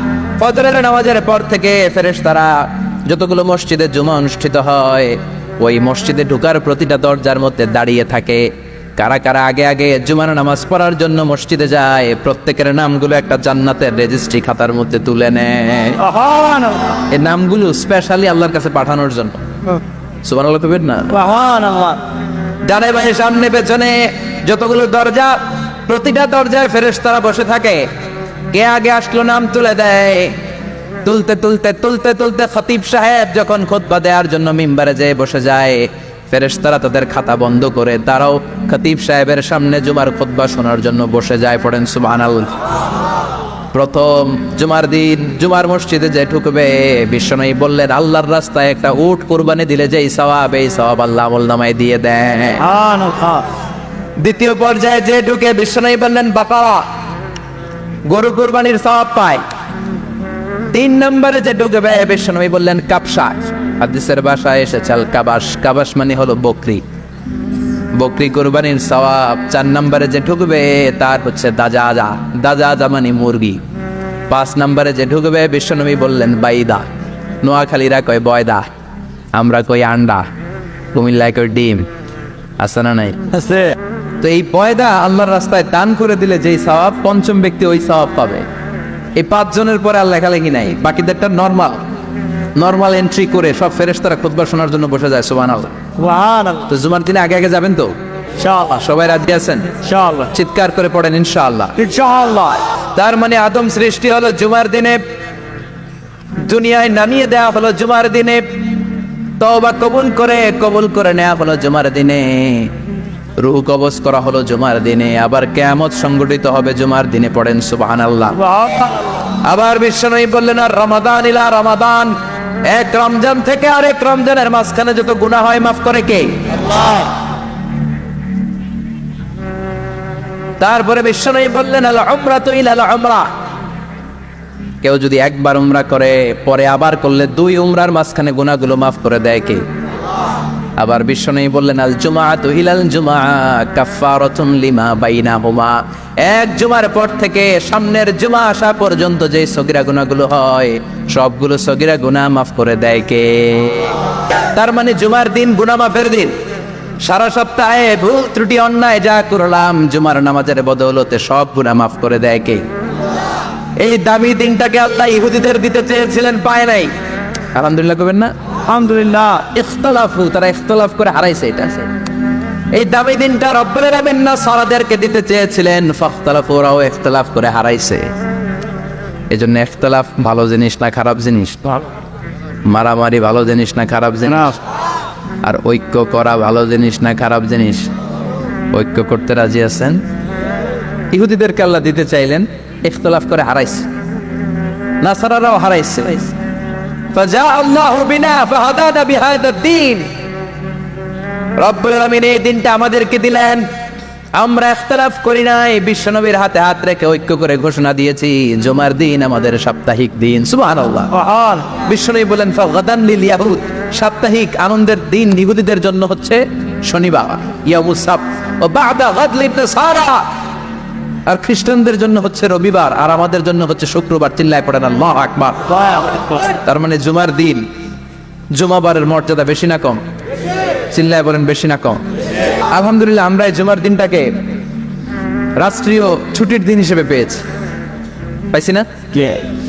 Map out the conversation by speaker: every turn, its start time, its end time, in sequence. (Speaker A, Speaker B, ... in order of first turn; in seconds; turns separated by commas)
Speaker A: 0.4-16.0, Speaker B: 16.0-17.0, Speaker A: 17.1-19.4, Speaker A: 20.3-21.1, Speaker B: 21.1-22.0, Speaker A: 22.7-27.9, Speaker A: 28.5-30.4, Speaker A: 31.0-42.5, Speaker A: 43.7-52.6, Speaker B: 52.6-53.5, Speaker A: 54.2-56.8, Speaker A: 58.1-59.4, Speaker A: 60.7-66.8, Speaker A: 68.0-73.6, Speaker A: 74.3-76.9, Speaker A: 77.4-78.6, Speaker A: 79.3-80.2, Speaker A: 80.9-81.9, Speaker A: 82.6-83.2, Speaker B: 83.3-83.7, Speaker A: 84.2-88.5, Speaker A: 89.2-91.8, Speaker A: 92.6-95.8, Speaker B: 96.0-96.7, Speaker A: 96.7-97.9, Speaker B: 98.4-98.9, Speaker A: 98.8-99.7, Speaker B: 99.8-100.3, Speaker A: 100.3-101.8, Speaker B: 101.8-102.7, Speaker A: 103.0-105.0, Speaker A: 106.4-108.5, Speaker A: 109.4-112.7, Speaker A: 113.4-118.5, Speaker B: 118.4-119.2, Speaker A: 119.3-122.1, Speaker A: 122.7-127.0, Speaker A: 130.6-133.3, Speaker A: 134.8-139.6, Speaker A: 140.8-154.0, Speaker A: 154.6-156.3, Speaker A: 157.0-162.6, Speaker A: 163.8-166.9, Speaker A: 167.6-168.3, Speaker B: 168.7-169.5, Speaker A: 169.5-171.9, Speaker A: 172.7-178.1, Speaker A: 179.3-181.6, Speaker A: 182.7-184.6, Speaker A: 185.4-187.9, Speaker A: 188.7-190.0, Speaker A: 191.1-193.9, Speaker A: 195.0-196.3, Speaker A: 197.1-200.1, Speaker A: 201.6-203.7, Speaker A: 204.3-211.1, Speaker B: 211.1-211.7, Speaker A: 211.7-220.2, Speaker A: 221.3-225.8, Speaker B: 225.8-226.4, Speaker A: 226.5-227.6, Speaker A: 228.5-230.0, Speaker A: 230.9-232.0, Speaker A: 232.7-234.3, Speaker A: 235.6-237.4, Speaker A: 238.5-238.8, Speaker B: 239.1-239.4